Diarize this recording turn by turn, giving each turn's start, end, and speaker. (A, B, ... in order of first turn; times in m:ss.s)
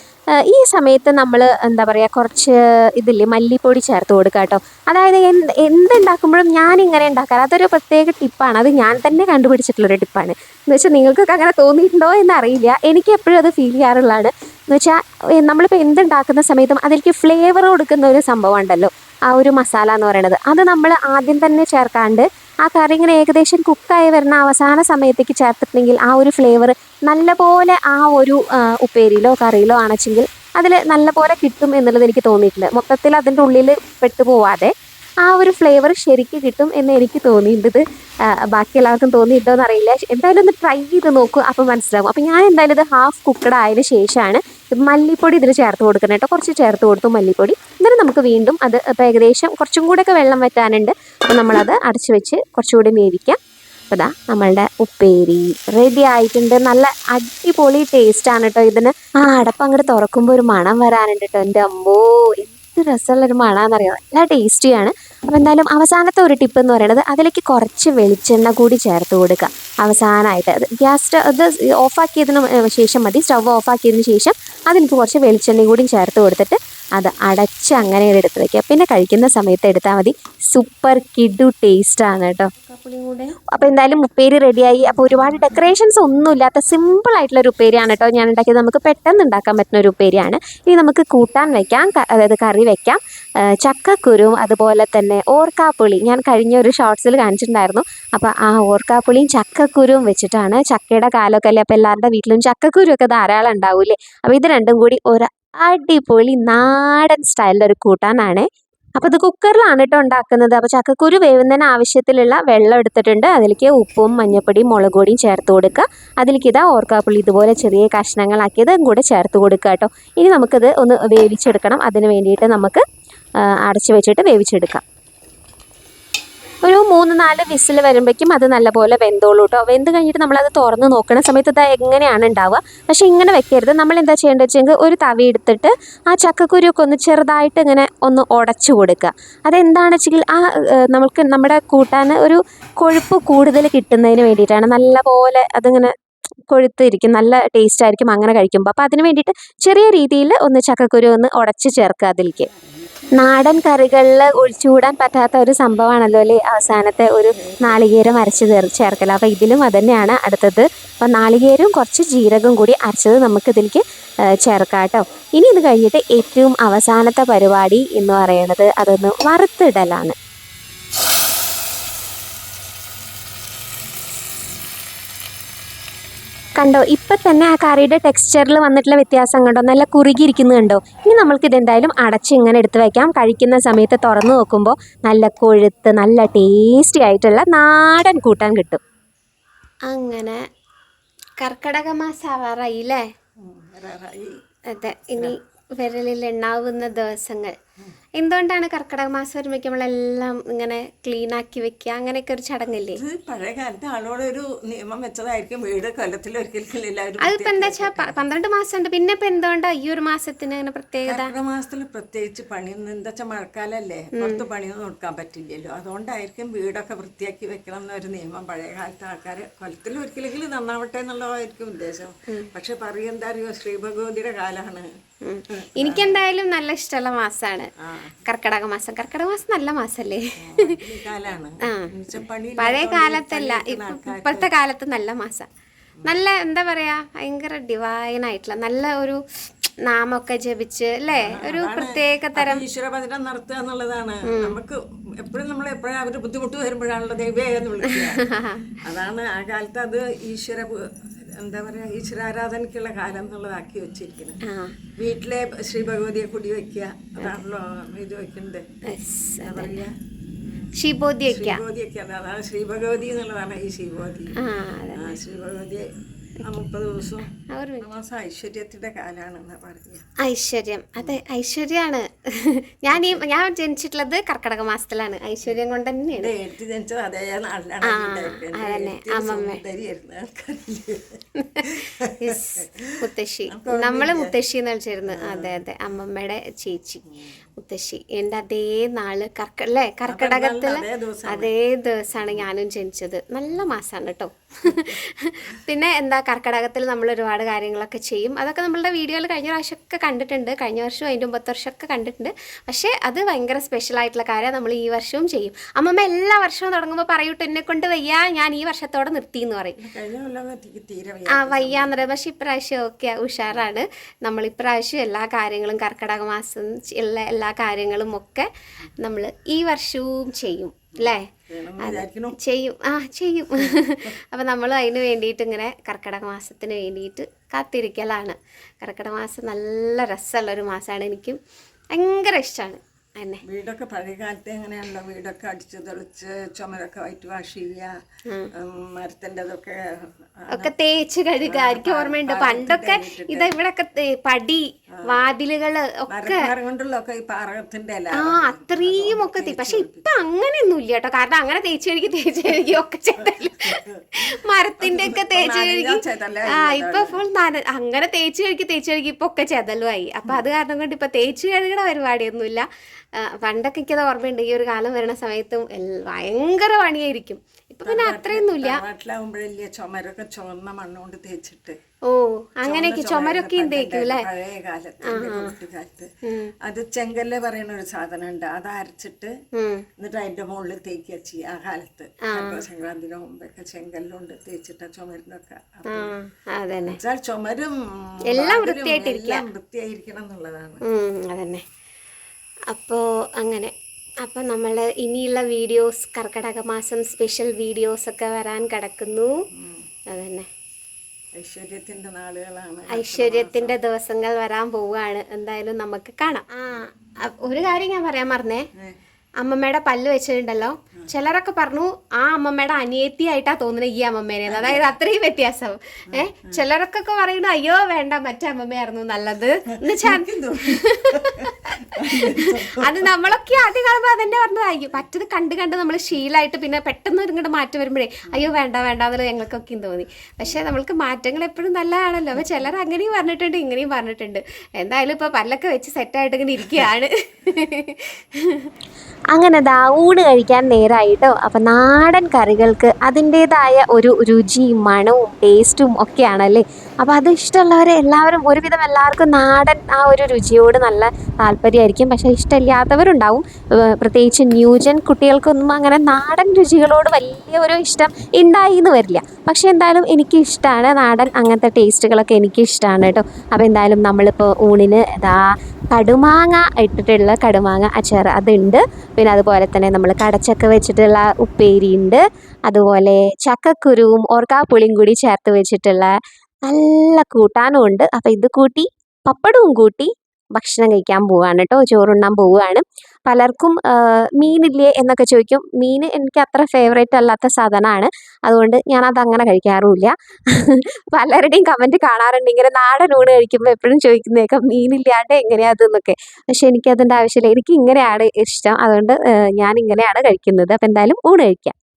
0:00.3-0:34.7 A
0:35.2-0:53.4 A
0:53.9-1:48.5 A
1:49.0-2:02.8 A
2:03.4-2:04.8 A
2:06.6-2:25.9 A
2:26.5-2:32.5 A
2:33.2-2:43.8 A
2:44.3-2:50.1 A
2:56.6-3:08.8 A
3:09.9-3:10.4 A
3:11.4-3:13.1 A
3:13.4-3:14.3 B
3:14.7-3:17.6 A
3:18.2-3:23.0 A
3:22.9-3:28.2 B
3:27.2-3:31.3 A
3:31.0-3:45.0 B
3:34.1-3:34.4 A
3:45.2-3:47.7 A
3:45.5-3:46.2 B
3:47.8-3:48.2 B
3:48.2-3:50.8 A
3:50.4-3:54.5 B
3:51.6-3:55.5 A
3:56.0-3:59.2 A
3:59.9-4:02.6 A
4:01.1-4:08.2 B
4:04.2-4:04.6 A
4:07.8-4:08.8 A
4:08.8-4:14.4 B
4:14.4-4:14.8 A
4:15.0-4:18.7 B
4:18.9-4:19.8 A
4:19.4-4:19.8 B
4:20.8-4:21.6 A
4:21.3-4:24.3 B
4:24.4-4:25.2 A
4:24.9-4:30.0 B
4:27.5-4:27.9 A
4:30.2-4:36.3 A
4:36.1-4:41.2 B
4:37.8-4:39.6 A
4:41.4-4:47.0 A
4:43.5-4:44.4 B
4:45.1-4:45.6 B
4:47.6-5:09.8 A
4:50.1-4:51.5 B
5:09.8-5:12.0 B
5:11.3-5:18.5 A
5:19.0-5:31.4 A
5:21.0-5:22.4 B
5:31.9-5:33.4 A
5:33.5-5:37.9 B
5:38.6-5:40.7 B
5:40.5-5:46.5 A
5:41.4-5:43.5 B
5:46.1-5:50.1 B
5:48.1-6:02.7 A
5:54.8-5:57.2 B
6:03.2-6:08.8 A
6:07.8-6:11.8 B
6:12.1-6:14.3 A
6:12.6-6:16.1 B
6:15.0-6:15.6 A
6:16.2-6:16.5 A
6:16.6-6:19.3 B
6:19.6-6:19.8 A
6:20.0-6:26.1 B
6:22.2-6:22.6 A
6:25.8-6:27.0 A
6:26.9-6:30.8 B
6:28.3-6:29.5 A
6:30.8-6:31.6 A
6:32.7-6:39.3 A
6:39.5-6:39.9 B
6:40.1-6:40.5 A
6:41.4-6:43.7 B
6:42.9-6:48.7 A
6:49.4-7:18.7 A
6:54.5-6:54.8 B
6:56.1-6:56.6 B
7:19.3-7:56.1 A
7:56.6-8:21.7 A